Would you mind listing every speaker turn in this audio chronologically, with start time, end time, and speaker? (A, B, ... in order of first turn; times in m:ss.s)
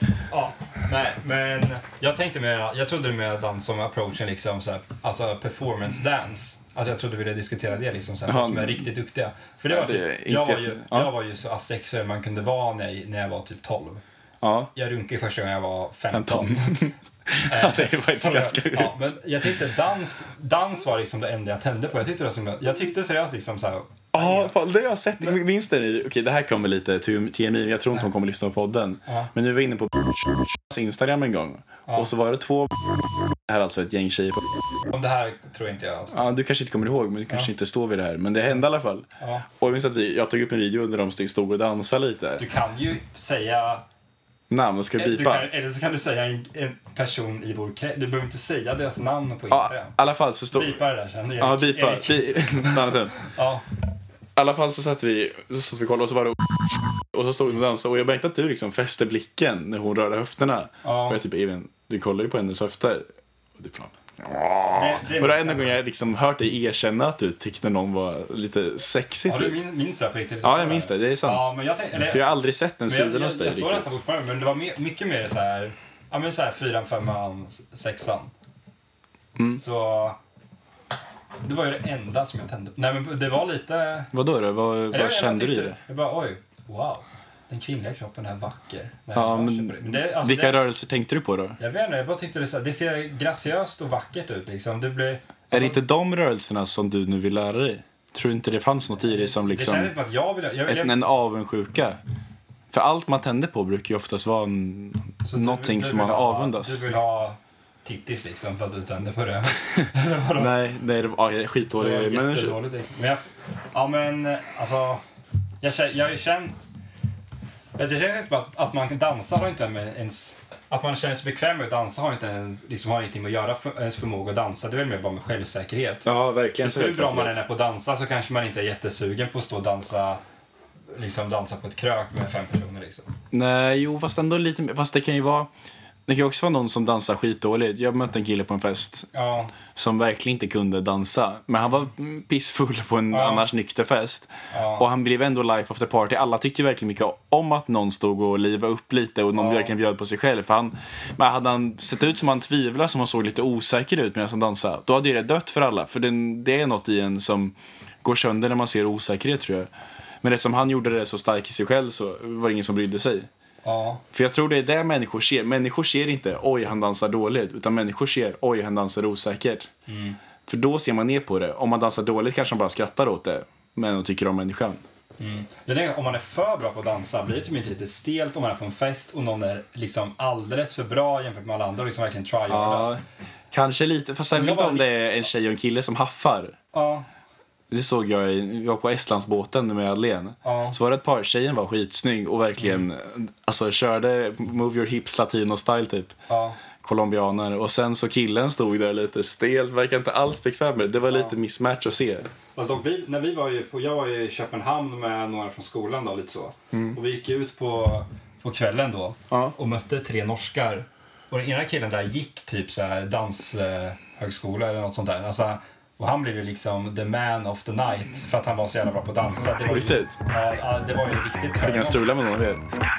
0:00.3-0:14.0 A
0:08.3-0:08.9 B
0:09.7-0:11.1 B
0:14.4-0:14.7 B
0:14.7-0:16.9 A
0:16.1-0:19.0 B
0:17.4-0:24.6 A
0:24.1-0:34.5 B
0:29.1-0:29.3 A
0:34.9-0:36.2 A
0:36.1-0:42.4 B
0:39.2-0:39.5 A
0:42.4-0:43.8 A
0:44.5-0:45.5 B
0:45.0-0:49.9 A
0:49.5-0:50.8 B
0:50.5-0:53.6 A
0:51.4-0:53.2 B
0:54.4-1:09.6 B
1:00.8-1:01.2 A
1:04.7-1:05.8 A
1:09.3-1:12.3 A
1:10.4-1:11.5 B
1:12.0-1:14.0 B
1:12.9-1:18.3 A
1:19.6-1:20.2 A
1:21.4-1:24.1 A
1:24.1-1:25.8 B
1:24.9-1:30.6 A
1:29.1-1:31.6 B
1:31.6-1:35.8 A
1:35.5-1:39.9 B
1:39.0-1:41.0 A
1:40.7-1:42.0 B
1:42.7-1:46.8 B
1:45.2-1:50.5 A
1:50.4-1:52.6 B
1:51.8-1:55.0 A
1:55.6-1:56.6 A
1:57.8-2:06.1 A
2:06.0-2:07.4 B
2:06.6-2:10.2 A
2:10.9-2:13.1 A
2:13.3-2:15.5 B
2:16.1-2:19.1 B
2:19.1-2:19.5 A
2:19.7-2:39.7 B
2:23.1-2:23.5 A
2:24.5-2:24.9 A
2:29.4-2:29.7 A
2:40.2-2:43.3 B
2:43.6-2:44.0 A
2:44.1-2:49.7 B
2:49.9-2:50.2 A
2:50.5-2:54.8 B
2:55.2-3:02.9 A
3:02.5-3:06.6 B
3:04.3-3:05.0 A
3:06.7-3:07.1 A
3:07.7-3:16.2 B
3:10.4-3:10.8 A
3:12.6-3:12.9 A
3:16.3-3:16.6 A
3:16.8-3:22.3 B
3:21.1-3:21.4 A
3:22.6-3:42.1 A
3:26.7-3:27.0 B
3:39.6-3:40.2 B
3:41.6-3:42.6 B